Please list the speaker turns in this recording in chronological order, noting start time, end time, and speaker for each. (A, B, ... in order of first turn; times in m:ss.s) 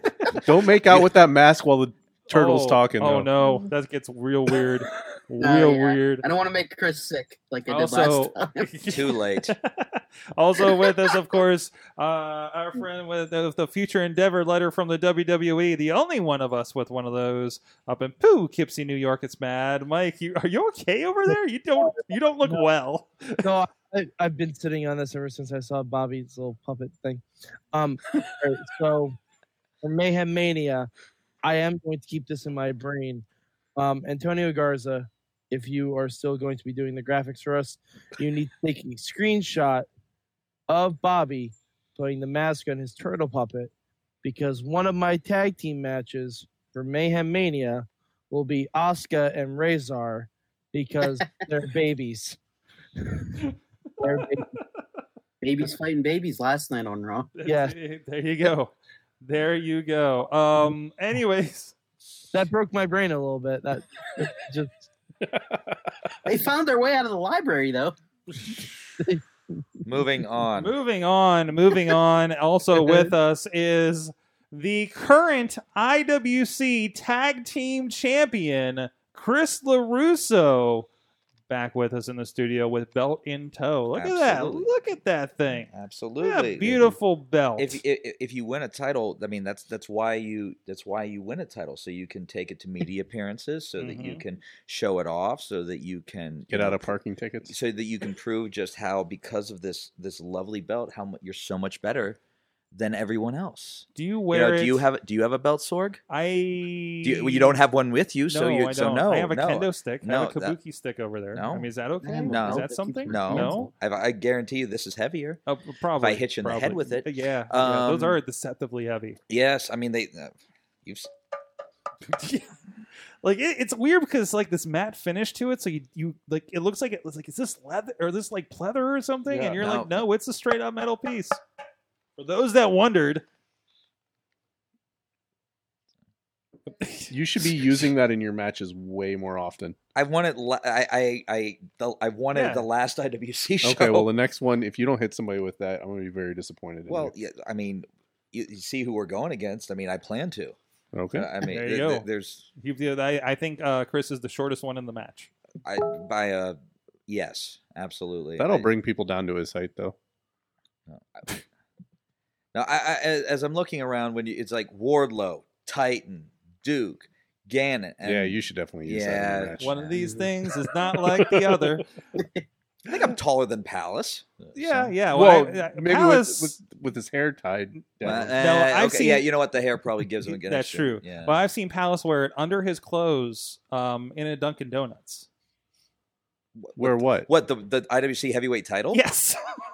0:00.4-0:03.3 A
0:02.3-0:06.2 B
0:05.4-0:08.7 C
0:07.7-0:23.4 B
0:08.9-0:09.5 D
0:23.4-0:29.2 E
0:29.8-0:30.9 E
0:31.4-0:33.2 E
0:33.8-0:39.9 E
0:40.7-0:43.7 E
0:44.2-0:52.4 E
0:53.0-0:53.5 E
0:54.0-0:54.5 E
0:55.4-0:57.3 C
0:57.4-1:01.8 B
0:57.5-0:57.8 E
1:02.3-1:04.9 E
1:06.2-1:08.0 C
1:09.0-1:09.6 E
1:09.8-1:10.7 D
1:10.6-1:20.9 B
1:12.7-1:13.1 E
1:21.5-1:25.7 B
1:24.0-1:24.7 D
1:25.5-1:27.0 D
1:26.2-1:27.8 B
1:27.6-1:42.2 D
1:33.8-1:34.2 B
1:36.5-1:37.5 A
1:42.7-1:46.0 D
1:44.0-1:44.8 B
1:46.1-1:47.6 B
1:47.0-1:50.6 D
1:48.3-1:53.7 B
1:51.3-1:51.7 D
1:52.0-1:53.7 C
1:52.3-1:55.4 D
1:55.5-1:59.2 B
1:56.0-1:58.2 D
1:59.3-2:00.3 D
2:00.8-2:01.1 D
2:02.1-2:02.5 B
2:03.2-2:11.4 B
2:09.4-2:09.6 A
2:09.4-2:10.0 D
2:12.2-2:13.2 B
2:16.8-2:17.1 B
2:17.1-2:19.8 A
2:20.0-2:24.1 D
2:22.3-2:22.6 B
2:23.6-2:27.1 A
2:26.9-2:30.6 D
2:30.9-2:31.3 A
2:31.1-2:32.5 D
2:31.5-2:32.1 B
2:32.6-2:35.3 B
2:35.6-2:38.7 D
2:38.4-2:40.0 A
2:40.9-2:41.4 D
2:42.5-2:50.0 D
2:48.0-2:50.0 A
2:49.6-2:51.8 B
2:50.9-2:51.8 A
2:52.2-2:52.4 C
2:52.8-2:54.9 D
2:54.6-2:56.6 B
2:55.1-2:58.4 A
2:58.0-3:01.4 D
2:58.4-2:59.3 B
3:00.4-3:05.3 B
3:06.6-3:09.0 D
3:06.8-3:07.3 A
3:08.9-3:09.4 B